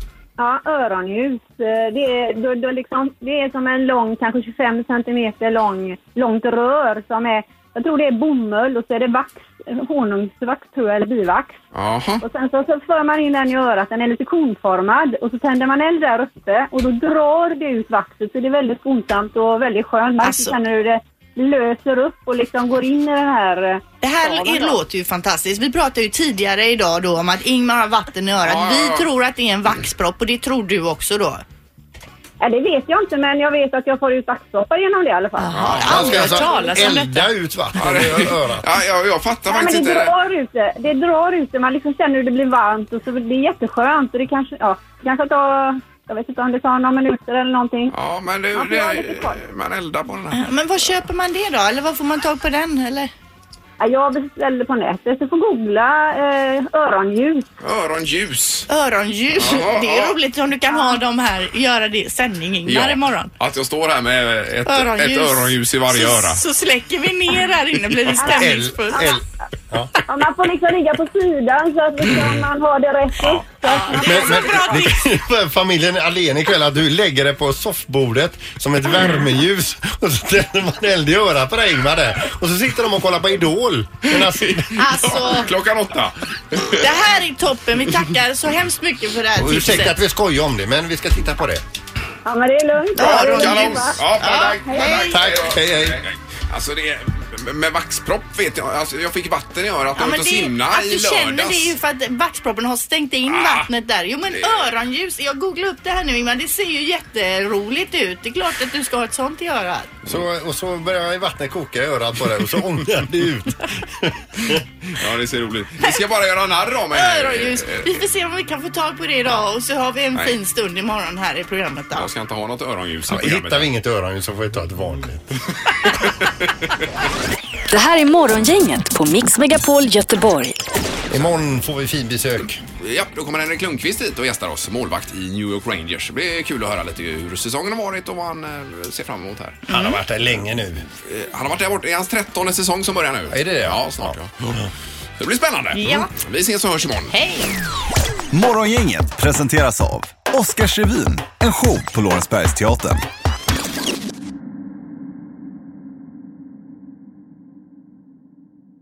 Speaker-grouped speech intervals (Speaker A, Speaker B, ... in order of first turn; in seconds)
Speaker A: 0.4-11.6, 12.2-24.8, 32.4-36.8, 39.5-47.9, 48.5-49.4, 53.8-57.5, 60.7-61.0, 68.2-69.2, 70.1-74.8, 92.2-94.0, 94.7-95.0
Speaker B: 11.7-12.2, 28.4-29.1, 35.5-36.2, 37.8-40.1, 47.9-50.4, 57.6-58.7, 59.4-60.2, 62.7-66.4, 73.2-73.5, 84.1-86.9, 93.0-101.8, 103.3-103.7, 104.3-104.7, 114.9-118.0, 122.0-123.7, 132.8-139.6, 141.0-144.6, 145.2-147.1
Speaker C: 20.2-20.6, 24.0-31.4, 35.4-37.3, 50.3-53.1, 58.7-63.3, 64.7-69.2, 73.3-75.0, 84.8-85.5, 86.8-90.0, 93.0-95.3, 100.0-109.9, 116.9-122.1, 139.7-140.0, 145.8-146.1, 147.1-147.5
Speaker D: 35.8-38.7, 68.2-69.9, 74.0-84.8, 89.4-91.6, 95.1-96.0, 110.1-114.6, 123.1-125.3, 131.1-132.6, 139.7-140.9, 143.3-144.2
Speaker E: 127.7-130.6
Speaker F: 148.3-153.0